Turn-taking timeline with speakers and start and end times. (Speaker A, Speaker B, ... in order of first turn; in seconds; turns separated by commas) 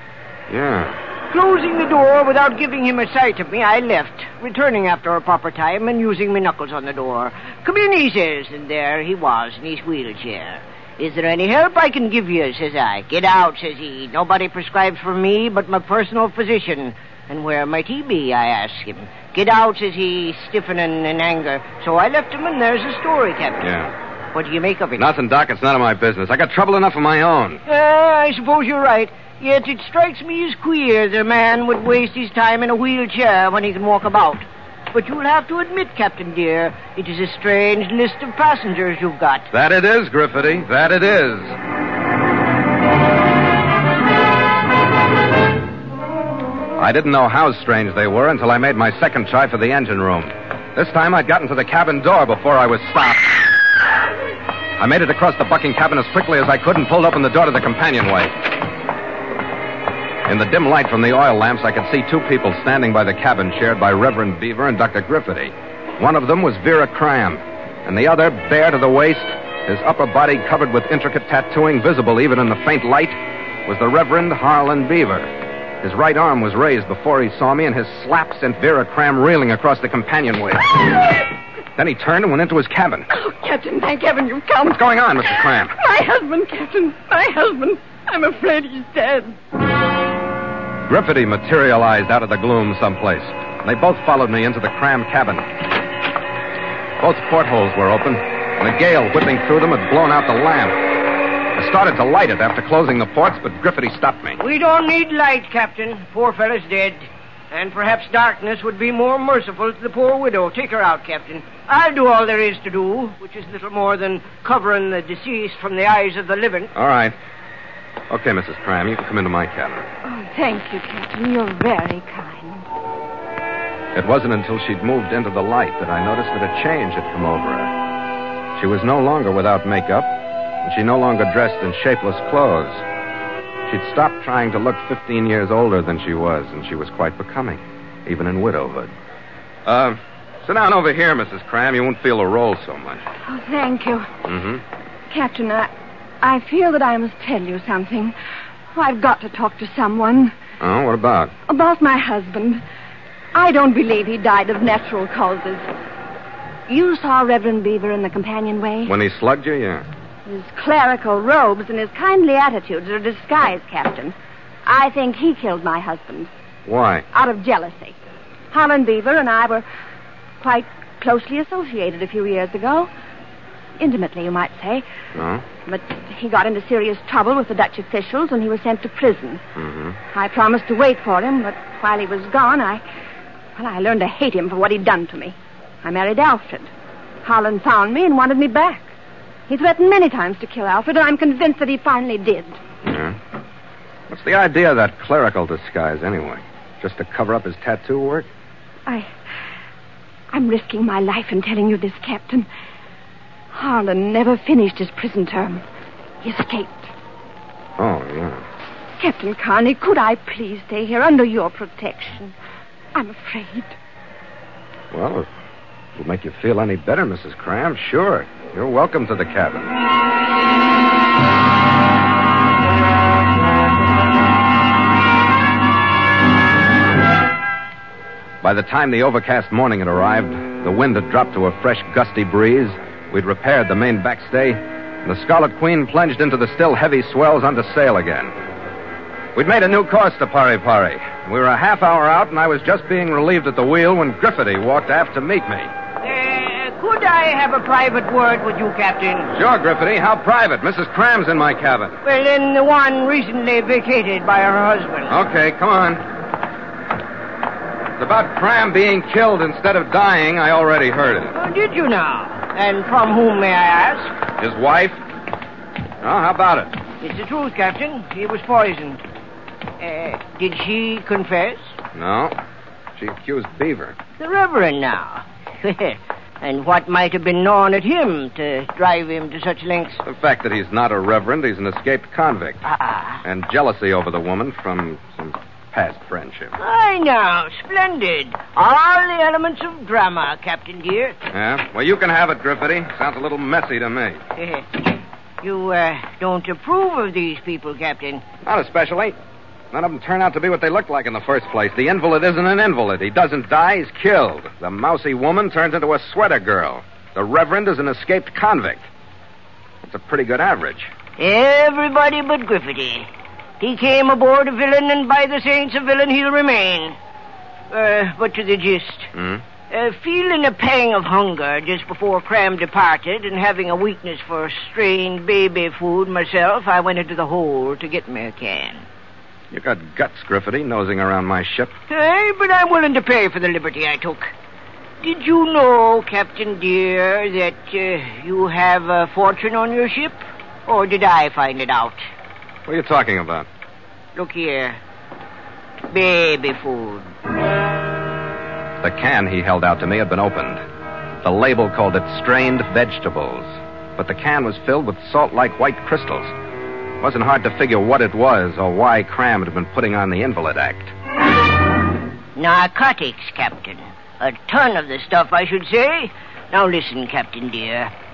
Speaker A: 0.5-0.9, Speaker B: 1.3-23.6, Speaker A: 23.6-23.9, Speaker B: 24.3-25.1, Speaker A: 25.0-27.6, Speaker B: 27.7-39.5, Speaker A: 39.5-41.5, Speaker A: 46.8-53.3, Speaker A: 54.8-58.4, Speaker A: 60.2-75.3, Speaker A: 75.8-80.8, Speaker A: 81.8-83.1, Speaker C: 83.1-84.8, Speaker A: 84.7-85.7, Speaker C: 85.3-89.4, Speaker A: 90.9-95.5, Speaker A: 97.0-100.8, Speaker A: 101.5-104.4, Speaker B: 104.4-116.7, Speaker A: 116.7-117.1, Speaker A: 118.1-119.8, Speaker C: 120.0-122.7, Speaker A: 123.9-127.7, Speaker A: 128.6-132.8, Speaker A: 133.7-138.9, Speaker A: 139.7-143.0, Speaker C: 143.2-144.1, Speaker A: 144.2-144.6, Speaker C: 145.1-148.1, Speaker C: 148.7-150.3, Speaker A: 150.6-151.3, Speaker C: 151.5-152.6, Speaker C: 153.3-155.6, Speaker C: 156.7-158.9, Speaker A: 158.9-159.8, Speaker C: 160.2-166.3, Speaker A: 166.6-167.0, Speaker C: 167.1-167.9, Speaker C: 168.5-169.6, Speaker C: 170.4-172.9, Speaker C: 173.8-174.8, Speaker A: 175.2-175.4, Speaker C: 175.7-179.4, Speaker A: 179.6-179.9, Speaker C: 180.1-182.8, Speaker C: 183.6-186.7, Speaker C: 187.2-188.9, Speaker C: 189.5-192.6, Speaker A: 192.8-193.2, Speaker A: 194.1-198.3, Speaker C: 200.3-202.5, Speaker C: 203.5-205.6, Speaker C: 206.2-206.9, Speaker A: 207.8-208.4, Speaker C: 209.0-212.3, Speaker C: 212.9-213.8, Speaker A: 214.9-215.2, Speaker A: 215.9-219.7, Speaker A: 228.4-238.3, Speaker A: 239.3-245.7, Speaker B: 246.0-249.3, Speaker A: 249.3-252.0, Speaker B: 252.0-255.1, Speaker A: 255.1-256.0, Speaker A: 258.0-261.3, Speaker B: 261.3-264.1, Speaker A: 264.4-265.0, Speaker A: 266.0-266.7, Speaker B: 267.0-269.0, Speaker B: 269.8-271.8, Speaker A: 271.9-272.3, Speaker A: 273.0-274.0, Speaker B: 274.2-280.0, Speaker A: 280.0-282.6, Speaker A: 283.2-286.5, Speaker B: 286.6-291.1, Speaker A: 291.3-294.2, Speaker B: 294.4-298.2, Speaker A: 298.4-299.1, Speaker A: 299.7-308.8, Speaker A: 309.8-310.9, Speaker B: 311.2-313.1, Speaker B: 313.6-316.9, Speaker B: 317.7-319.1, Speaker A: 319.1-319.4, Speaker B: 319.7-328.8, Speaker A: 329.5-331.7, Speaker B: 331.9-334.3, Speaker B: 335.0-342.0, Speaker A: 342.6-343.4, Speaker B: 344.1-344.8, Speaker B: 345.9-347.0, Speaker A: 348.8-350.6, Speaker A: 351.2-356.3, Speaker A: 357.0-360.9, Speaker B: 362.4-367.9